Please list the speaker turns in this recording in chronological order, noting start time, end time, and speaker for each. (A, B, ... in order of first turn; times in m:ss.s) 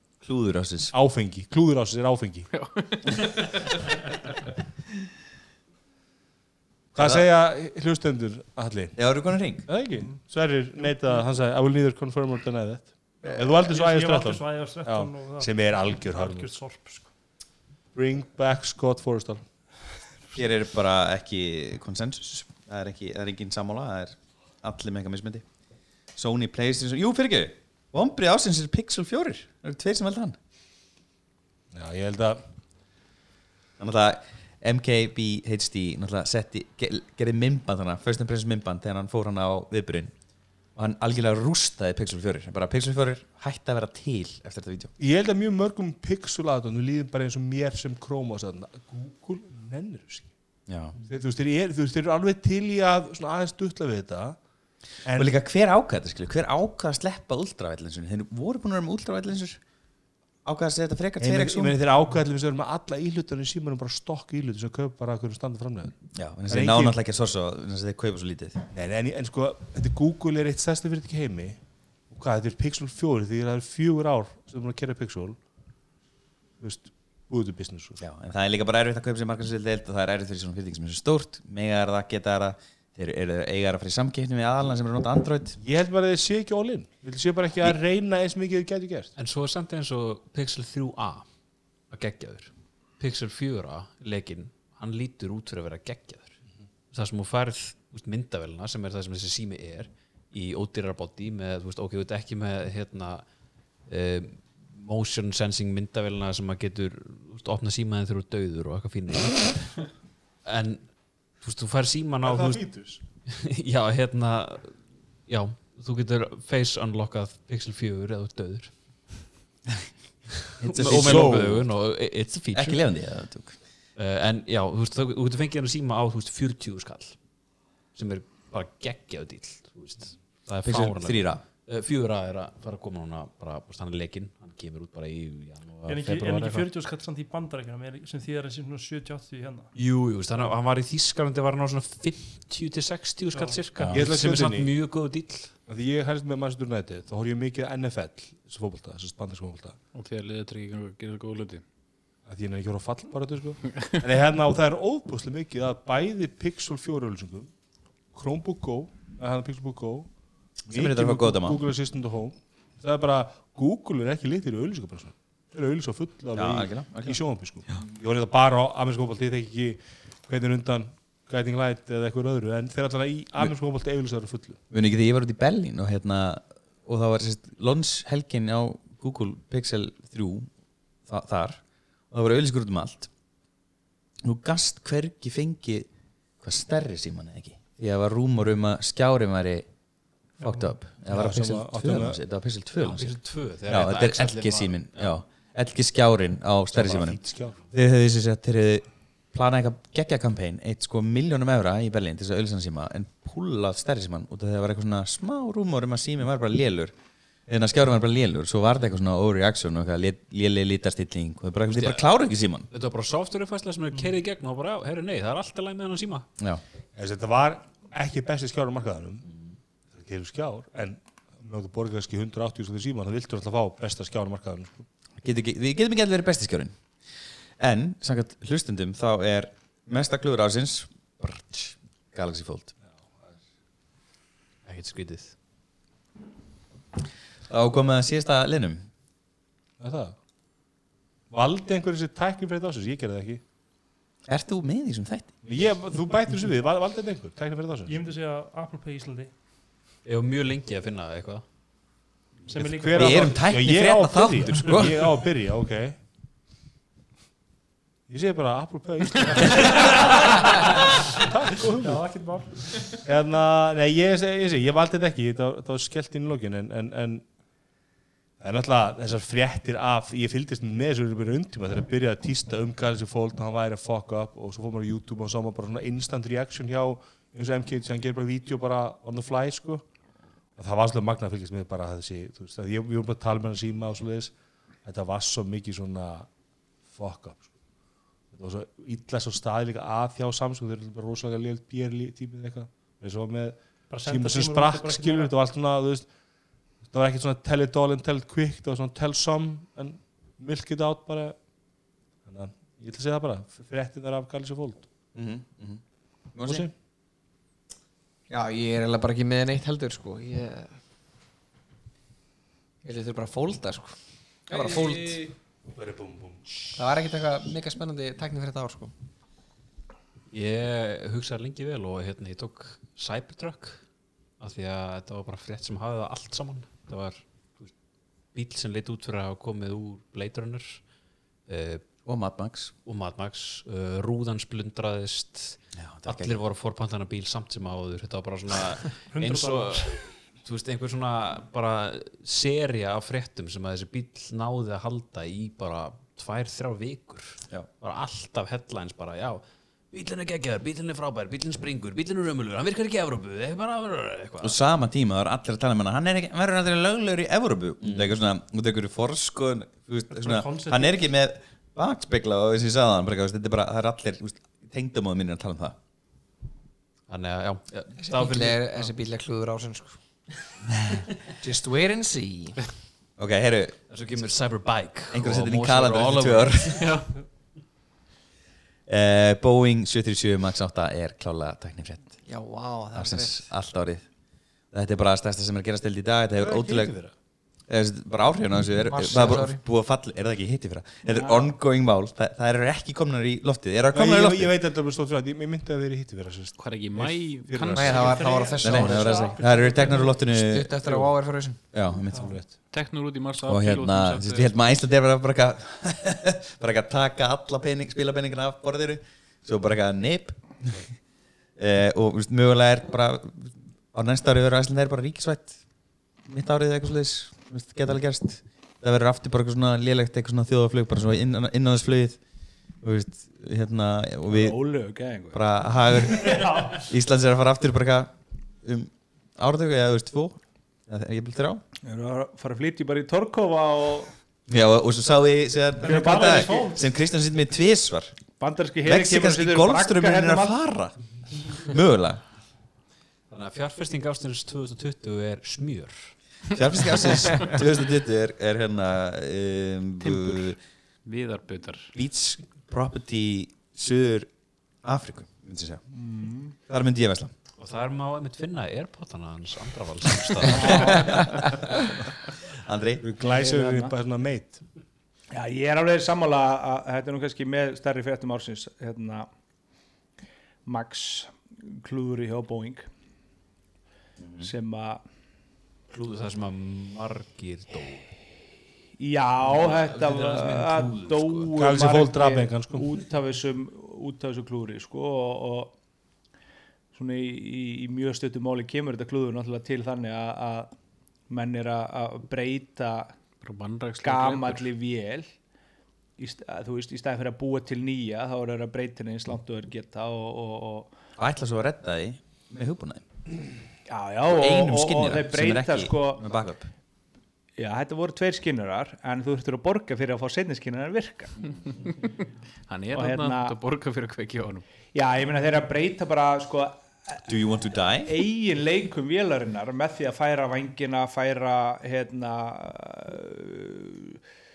0:00.2-0:00.9 A
0:00.9-0:02.5 B
0:02.5-0:04.3 C
0:06.9-0:09.1 B
0:07.0-0:07.2 A
0:09.0-0:09.7 A
0:09.6-0:16.5 B
0:13.2-0:17.1 D
0:17.9-0:19.4 B
0:20.3-0:25.5 A
0:26.1-0:30.4 A
0:31.7-0:32.4 B
0:33.8-0:40.1 A
0:40.7-0:44.9 A
0:45.0-0:50.3 B
0:50.7-0:51.0 A
0:51.0-0:54.4 B
0:55.0-0:55.3 B
0:55.2-0:59.6 A
1:00.4-1:01.8 A
1:01.2-1:07.0 B
1:06.2-1:08.6 A
1:08.7-1:15.4 B
1:16.6-1:18.0 B
1:18.0-1:25.6 A
1:25.6-1:29.1 B
1:29.2-1:31.3 E
1:31.9-1:36.4 E
1:36.9-1:43.2 E
1:43.9-1:49.8 E
1:50.4-1:59.2 E
1:52.2-1:53.0 B
2:00.6-2:01.6 A
2:00.6-2:02.8 E
2:00.8-2:01.6 B
2:02.5-2:03.6 A
2:04.0-2:07.2 E
2:07.9-2:16.6 E
2:10.6-2:11.4 A
2:15.9-2:19.7 D
2:19.7-2:25.5 E
2:23.3-2:23.6 D
2:23.8-2:24.1 A
2:23.9-2:24.7 B
2:25.7-2:29.8 B
2:29.9-2:31.6 C
2:32.2-2:37.5 B
2:38.1-2:40.1 B
2:40.7-2:54.6 B
2:40.7-2:41.6 A
2:46.3-2:47.2 A
2:54.7-3:00.5 A
3:01.0-3:03.1 A
3:04.2-3:05.9 A
3:06.4-3:09.7 A
3:10.4-3:26.9 A
3:10.4-3:10.7 D
3:11.0-3:12.2 B
3:12.8-3:15.1 E
3:16.7-3:17.6 B
3:27.5-3:32.7 A
3:31.7-3:36.3 E
3:36.9-3:39.2 B
3:39.9-3:44.8 B
3:45.2-3:46.8 A
3:47.6-3:52.7 A
3:53.0-3:53.3 B
3:54.6-3:55.3 E
3:57.5-3:58.9 A
3:59.8-4:00.2 B
4:01.3-4:03.4 B
4:04.2-4:05.3 A
4:05.4-4:08.0 B
4:07.8-4:09.3 D
4:10.0-4:11.4 E
4:12.4-4:13.5 D
4:12.5-4:16.0 B
4:12.9-4:15.2 A
4:18.1-4:22.1 B
4:19.8-4:20.5 D
4:21.8-4:22.9 D
4:22.8-4:27.2 B
4:28.4-4:39.8 B
4:40.6-4:46.3 B
4:46.9-4:47.5 B
4:48.3-4:56.1 B
4:53.9-4:55.3 D
4:56.9-5:01.4 B
5:02.2-5:04.9 B
5:05.1-5:05.8 A
5:06.3-5:06.7 A
5:06.4-5:06.7 B
5:08.3-5:10.8 F
5:12.8-5:15.2 F
5:14.5-5:15.3 C
5:15.7-5:16.7 B
5:16.7-5:18.9 F
5:20.3-5:23.8 E
5:24.4-5:27.7 E
5:28.3-5:30.8 E
5:31.5-5:31.8 E
5:32.0-5:32.7 A
5:32.8-5:54.6 E
5:35.8-5:36.4 A
5:39.1-5:40.1 D
5:54.4-6:05.8 A
5:57.8-5:58.1 E
6:00.1-6:01.1 D
6:07.1-6:08.6 E
6:08.0-6:10.5 F
6:10.8-6:11.0 A
6:11.4-6:12.6 F
6:13.2-6:13.8 A
6:13.9-6:17.1 E
6:15.1-6:17.0 A
6:18.9-6:22.2 A
6:22.2-6:23.5 F
6:22.9-6:24.1 A
6:24.7-6:27.0 A
6:26.4-6:27.1 B
6:27.7-6:34.5 A
6:28.9-6:29.6 F
6:31.0-6:31.5 G
6:33.9-6:38.1 B
6:36.6-6:38.5 C
6:37.7-6:39.3 F
6:37.9-6:40.3 D
6:38.6-6:40.8 A
6:40.1-6:41.7 F
6:41.7-6:42.6 A
6:42.1-6:42.4 D
6:42.1-6:42.5 B
6:42.7-6:44.5 C
6:43.4-6:51.0 A
6:51.5-6:55.6 A
6:56.2-7:02.2 A
7:02.8-7:04.6 A
7:04.3-7:05.5 G
7:05.3-7:11.6 A
7:06.2-7:06.9 D
7:11.8-7:14.1 G
7:14.5-7:18.2 A
7:15.8-7:17.0 D
7:15.9-7:16.6 G
7:18.4-7:20.6 G
7:18.8-7:22.2 A
7:23.3-7:26.2 E
7:26.5-7:30.6 A
7:30.0-7:30.5 C
7:31.0-7:31.9 C
7:31.9-7:34.3 A
7:34.8-7:35.8 A
7:35.9-7:36.6 G
7:36.7-7:37.3 A
7:37.6-7:40.9 E
7:40.4-7:41.2 A
7:40.5-7:41.2 G
7:42.5-7:43.0 A
7:43.0-7:44.6 B
7:43.2-7:43.9 G
7:45.3-7:49.3 G
7:50.6-7:52.9 G
7:54.2-7:54.5 A
7:54.4-7:55.0 G
7:55.9-7:58.1 E
7:59.0-8:05.7 G
7:59.4-8:01.5 E
8:01.6-8:02.9 B
8:06.9-8:10.7 G
8:11.3-8:13.1 G
8:13.4-8:14.7 C
8:14.0-8:15.3 G
8:16.2-8:20.9 G
8:21.2-8:23.0 A
8:23.9-8:26.2 G
8:24.3-8:26.7 A
8:27.6-8:31.4 G
8:31.8-8:32.1 C
8:32.7-8:34.6 C
8:32.9-8:33.6 G
8:34.9-8:37.2 G
8:37.2-8:38.2 A
8:38.0-8:44.2 G